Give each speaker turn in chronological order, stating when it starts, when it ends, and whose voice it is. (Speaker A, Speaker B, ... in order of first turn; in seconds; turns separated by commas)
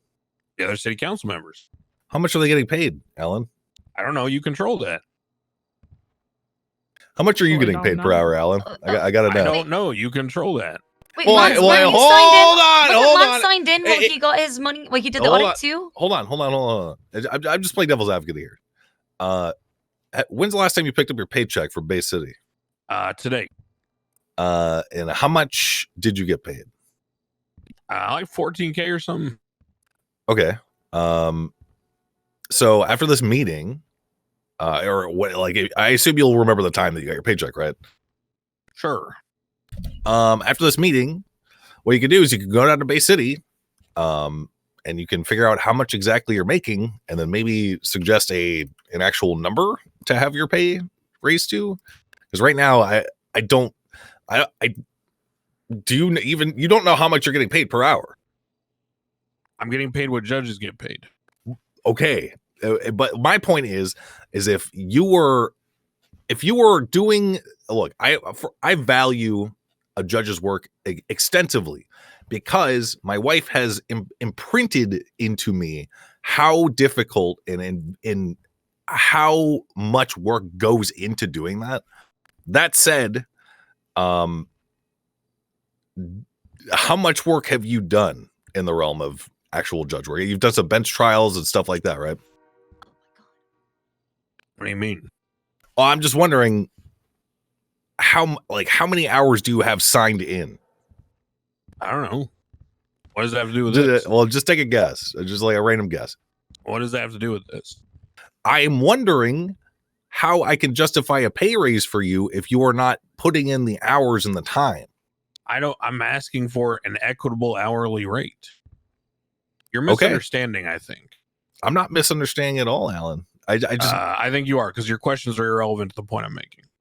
Speaker A: 0.6-1.7, Speaker B: 2.1-3.5, Speaker A: 4.0-5.0, Speaker B: 7.2-9.6, Speaker C: 7.5-9.7, Speaker A: 9.2-10.8, Speaker C: 11.2-15.9, Speaker B: 11.2-14.1, Speaker A: 11.3-11.8, Speaker B: 15.2-18.6, Speaker B: 19.2-19.5, Speaker B: 20.1-22.4, Speaker A: 22.9-23.5, Speaker B: 24.4-26.7, Speaker A: 27.9-29.4, Speaker B: 30.3-31.5, Speaker B: 32.5-33.8, Speaker B: 34.6-37.8, Speaker A: 38.7-39.1, Speaker B: 40.0-41.2, Speaker B: 41.8-43.4, Speaker B: 44.0-51.8, Speaker B: 52.3-53.7, Speaker B: 54.3-54.7, Speaker B: 55.9-58.1, Speaker A: 59.6-61.1, Speaker B: 61.8-65.5, Speaker B: 66.3-81.8, Speaker B: 82.5-83.2, Speaker B: 84.0-84.5, Speaker B: 86.0-92.2, Speaker C: 93.0-93.3, Speaker A: 94.6-95.1, Speaker B: 95.8-96.7, Speaker B: 98.0-100.6, Speaker A: 101.8-102.3, Speaker A: 103.1-104.1, Speaker B: 103.7-106.2, Speaker A: 106.6-107.8, Speaker B: 108.5-109.5, Speaker B: 110.1-114.9, Speaker A: 115.5-118.5, Speaker A: 119.7-121.1, Speaker B: 119.9-120.2, Speaker B: 121.6-124.0, Speaker A: 123.8-126.6